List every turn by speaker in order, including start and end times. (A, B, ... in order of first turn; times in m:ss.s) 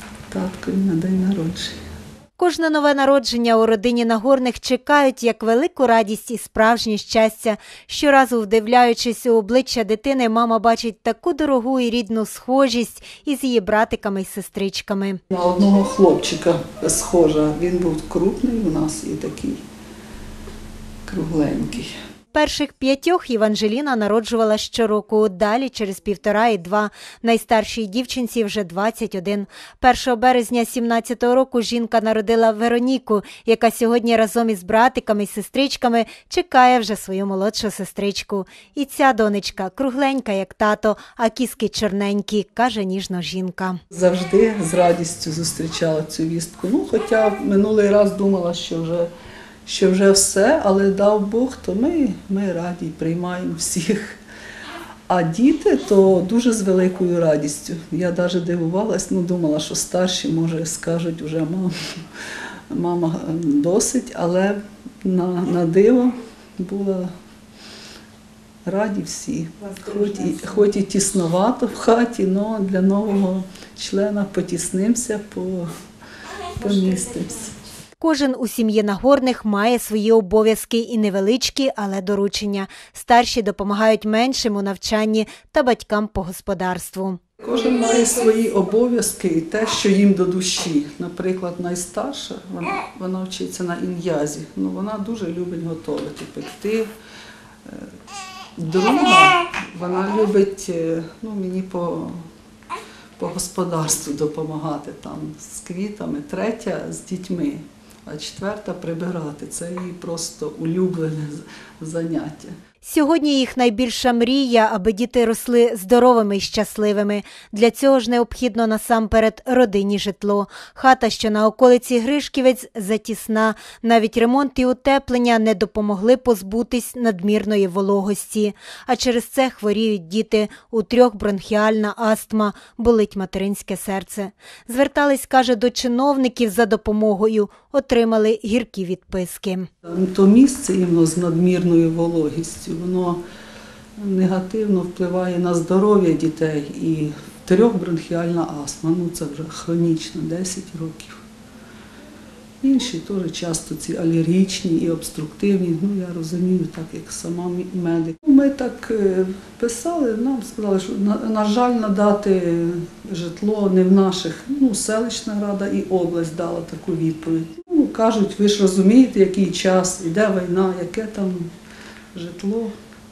0:00.3-0:01.8 A
0:02.4-0:15.2 B
0:15.3-0:19.6 A
0:21.1-0:21.9 A
0:22.3-0:43.8 B
0:43.9-0:49.1 A
0:49.6-0:54.2 A
0:55.1-1:01.7 A
1:02.7-1:07.1 A
1:08.6-1:15.7 A
1:16.6-1:17.5 A
1:18.0-1:27.2 B
1:27.4-1:36.9 A
1:37.6-1:37.9 A
1:38.6-1:42.2 A
1:43.2-1:52.5 A
1:52.8-2:19.7 B
2:19.8-2:23.2 A
2:24.0-2:31.2 A
2:32.6-2:51.5 A
2:52.1-2:52.7 A